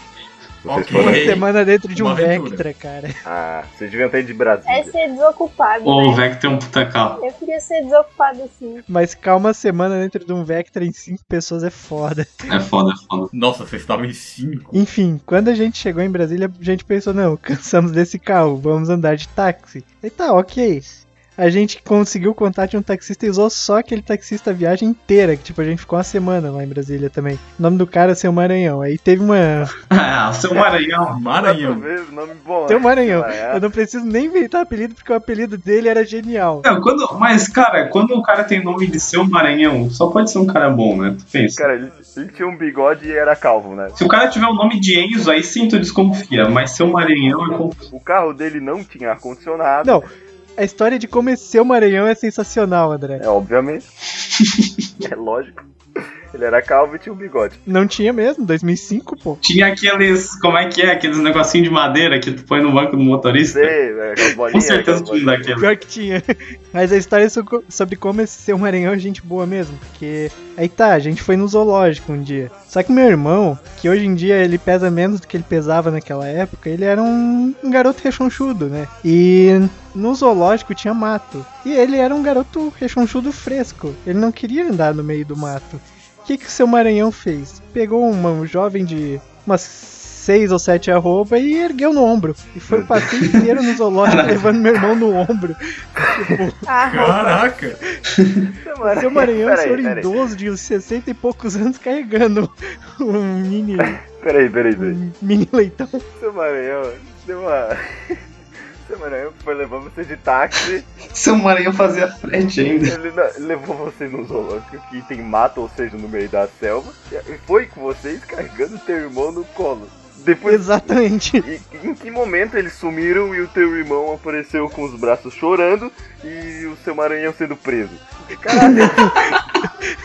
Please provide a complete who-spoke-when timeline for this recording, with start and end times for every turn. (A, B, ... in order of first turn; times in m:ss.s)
0:00.6-0:01.4 A
0:00.7-0:02.6 B
0:00.9-0:03.2 C
0:03.2-0:05.0 A
0:04.7-0:06.2 D
0:05.8-0:07.2 E
0:07.2-0:08.8 D
0:08.9-0:12.5 C
0:12.5-0:13.3 E
0:13.3-0:14.8 B
0:14.7-0:29.7 C
0:29.9-0:31.2 E
0:31.1-0:31.9 B
0:31.3-0:33.6 A
0:32.7-0:36.6 C
0:36.6-0:41.6 E
0:41.6-0:44.0 A
0:44.0-0:47.9 E
0:47.9-0:50.1 A
0:49.8-0:53.2 C
0:53.2-0:53.8 A
0:54.2-0:54.8 E
0:55.0-0:55.6 A
0:56.3-0:57.6 A
0:57.7-0:59.4 C
0:59.4-1:03.8 E
1:03.5-1:05.6 A
1:04.5-1:05.7 E
1:05.6-1:36.6 C
1:32.7-1:33.1 A
1:33.2-1:33.5 E
1:34.0-1:34.5 E
1:36.6-1:37.4 D
1:36.9-1:37.8 B
1:38.1-1:38.5 E
1:38.6-1:40.1 A
1:38.8-1:44.0 C
1:43.8-1:45.0 A
1:44.8-1:46.0 C
1:46.2-1:48.2 A
1:48.8-1:50.9 A
1:51.1-1:53.0 E
1:52.8-2:09.2 A
2:00.4-2:01.4 C
2:08.5-2:09.3 C